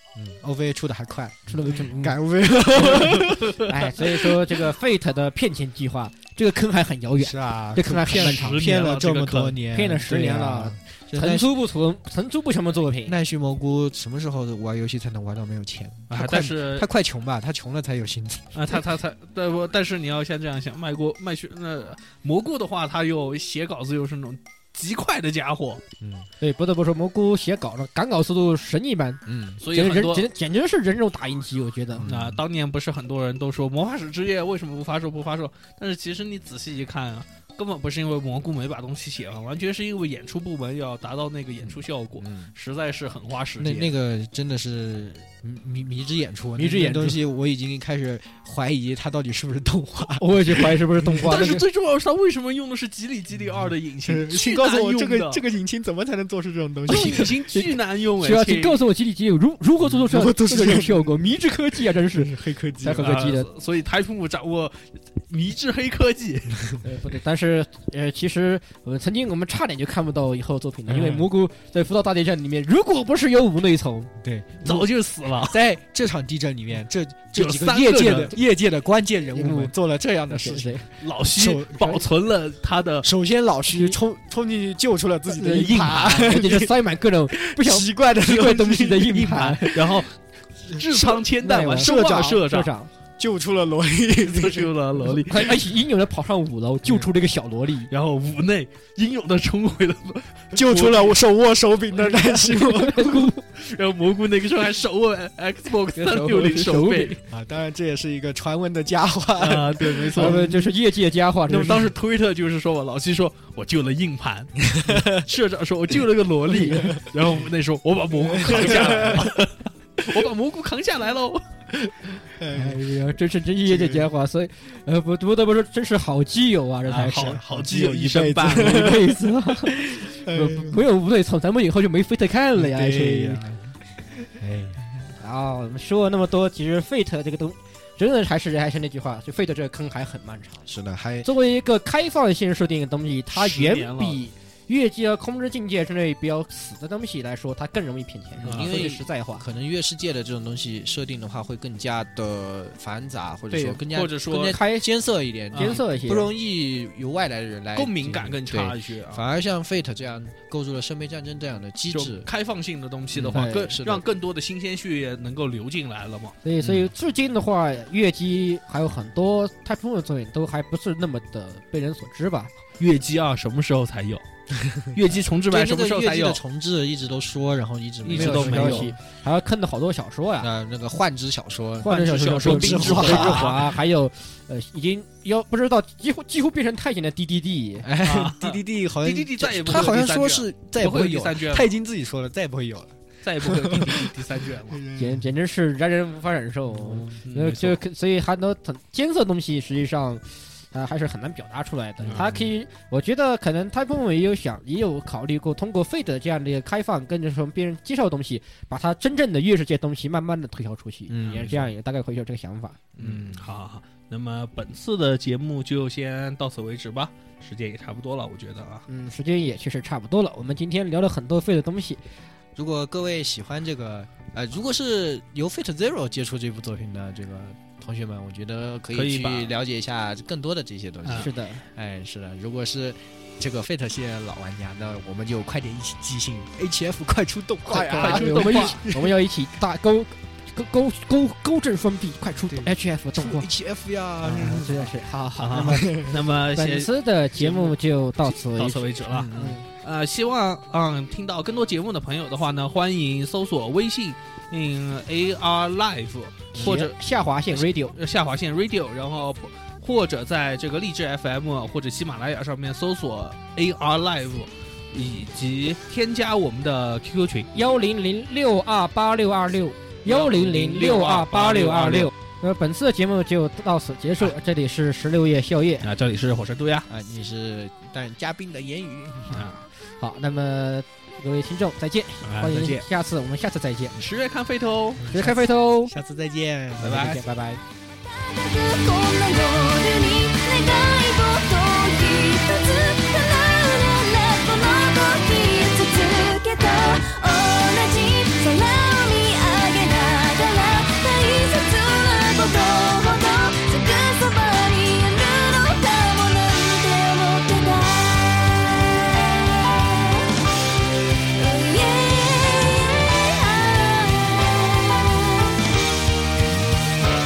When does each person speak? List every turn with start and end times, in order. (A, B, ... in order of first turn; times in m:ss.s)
0:00.2-0:03.4 A
0:01.5-0:02.2 B
0:02.7-0:08.6 B
0:02.8-0:04.3 C
0:07.2-0:11.5 A
0:08.0-0:09.6 C
0:09.7-0:13.2 B
0:13.1-0:18.8 A
0:16.1-0:16.9 C
0:18.5-0:25.8 C
0:26.0-0:26.3 A
0:26.4-0:32.1 B
0:29.3-0:29.6 A
0:29.6-0:30.3 C
0:32.0-0:32.4 A
0:32.1-0:44.0 C
0:41.6-0:42.5 A
0:43.6-0:51.4 A
0:46.6-0:47.2 B
0:50.2-0:51.6 B
0:51.2-0:55.4 C
0:53.4-0:57.4 A
0:56.9-0:58.8 C
0:56.9-1:03.5 B
0:59.8-1:01.4 A
1:02.0-1:03.1 A
1:02.9-1:06.8 C
1:06.8-1:14.1 B
1:10.9-1:11.3 C
1:11.0-1:11.2 A
1:14.2-1:14.8 A
1:14.6-1:15.6 C
1:15.5-1:20.8 A
1:17.4-1:18.4 C
1:17.7-1:18.4 B
1:19.3-1:19.7 B
1:20.3-1:20.9 B
1:21.0-1:23.1 C
1:21.3-1:22.0 A
1:23.0-1:26.7 A
1:23.7-1:24.0 B
1:25.3-1:29.8 B
1:27.3-1:30.0 A
1:29.2-1:30.2 C
1:30.7-1:32.4 A
1:30.7-1:32.7 C
1:31.4-1:32.9 B
1:33.2-1:34.7 A
1:34.2-1:35.6 C
1:35.2-1:37.9 B
1:37.9-1:41.2 C
1:40.5-1:43.2 A
1:42.0-1:43.4 B
1:43.6-1:47.2 C
1:46.0-1:47.2 B
1:47.3-1:50.7 A
1:49.4-1:50.4 C
1:50.2-1:51.9 B
1:51.5-1:51.9 A
1:51.5-2:01.4 C
1:54.7-1:55.2 A
1:56.5-1:57.0 B
1:56.7-1:57.0 A
1:58.3-1:59.4 A
1:58.7-1:59.1 B
2:02.4-2:02.9 A
2:02.5-2:07.4 B
2:03.6-2:04.1 A
2:06.9-2:09.1 C
2:07.0-2:09.1 A
2:08.4-2:13.4 B
2:09.7-2:10.8 A
2:12.6-2:14.8 A
2:15.2-2:20.6 B
2:20.7-2:21.3 A
2:21.2-2:29.4 B
2:23.3-2:24.2 C
2:28.4-2:42.3 A
2:28.4-2:29.0 C
2:33.5-2:34.6 C
2:34.4-2:34.9 B
2:35.5-2:35.8 C
2:35.5-2:36.3 B
2:37.7-2:39.2 C
2:41.9-2:46.4 C
2:43.1-2:44.0 A
2:43.3-2:43.8 B
2:46.4-2:52.5 B
2:46.6-2:46.9 A
2:52.8-2:54.2 C
2:54.8-2:58.9 A
2:54.9-2:56.4 C
2:58.0-2:58.9 C
2:58.1-3:00.5 B
3:00.4-3:03.5 A
3:01.8-3:07.9 B
3:01.8-3:03.7 C
3:07.8-3:14.1 A
3:08.0-3:11.7 C
3:13.2-3:14.8 C
3:14.7-3:15.2 A
3:15.0-3:32.8 B
3:16.8-3:17.2 A
3:17.2-3:17.8 C
3:22.0-3:22.3 C
3:22.1-3:22.5 A
3:31.1-3:31.7 A
3:33.0-3:33.4 A
3:33.0-3:38.9 C
3:38.9-3:42.0 B
3:42.6-3:59.1 A
3:48.9-3:49.5 C
3:51.0-3:51.3 C
3:51.1-3:51.7 B
3:57.7-4:03.5 B
3:57.8-3:58.8 C
4:02.5-4:04.9 A
4:04.2-4:04.7 C
4:04.2-4:06.0 B
4:05.4-4:17.0 C
4:05.7-4:06.2 A
4:06.5-4:09.7 B
4:09.1-4:09.6 A
4:16.6-4:18.0 B
4:17.5-4:27.5 C
4:27.5-4:35.9 B
4:30.0-4:32.1 C
4:35.8-4:36.9 C
4:36.9-4:39.5 A
4:39.3-4:39.6 C
4:40.0-4:44.0 B
4:42.2-4:42.9 C
4:44.0-4:45.1 C
4:45.0-4:47.2 A
4:45.1-4:46.0 B
4:46.8-4:47.2 C
4:46.9-4:47.6 B
4:47.9-5:10.3 D
5:11.3-5:15.7 D